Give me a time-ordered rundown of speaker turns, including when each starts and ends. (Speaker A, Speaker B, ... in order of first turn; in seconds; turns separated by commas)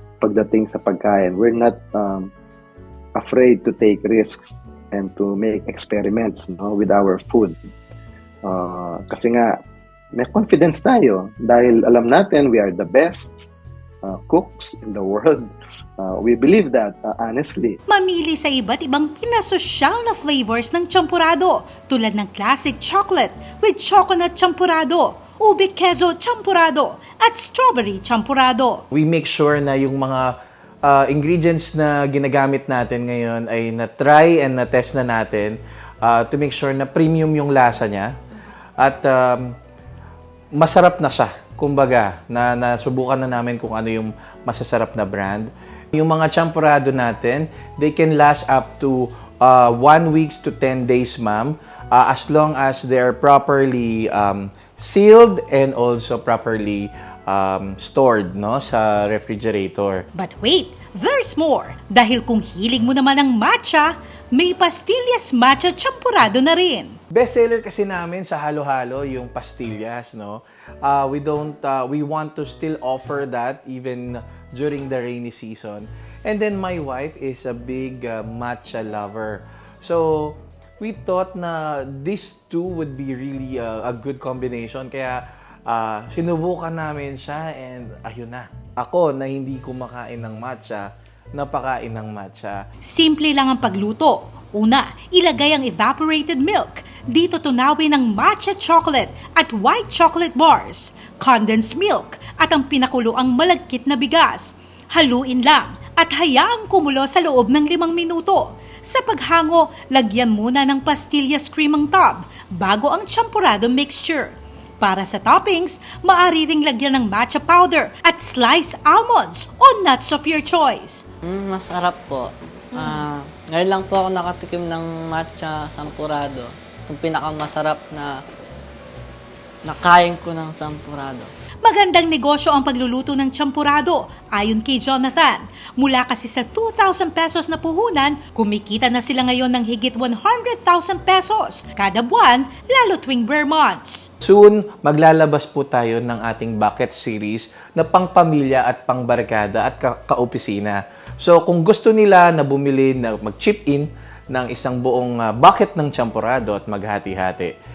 Speaker A: 0.2-2.3, Speaker A: 3.2-7.6, Speaker A: 8.4-9.6, Speaker A: 10.2-13.5, Speaker A: 14.0-17.8, Speaker B: 17.9-28.8, Speaker C: 28.9-38.1, Speaker C: 38.8-39.6, Speaker C: 40.5-60.0, Speaker B: 60.1-67.0, Speaker C: 67.1-92.6, Speaker B: 92.9-121.0, Speaker D: 121.3-128.2, Speaker D: 129.7-131.3, Speaker B: 131.6-144.1, Speaker C: 144.2-157.6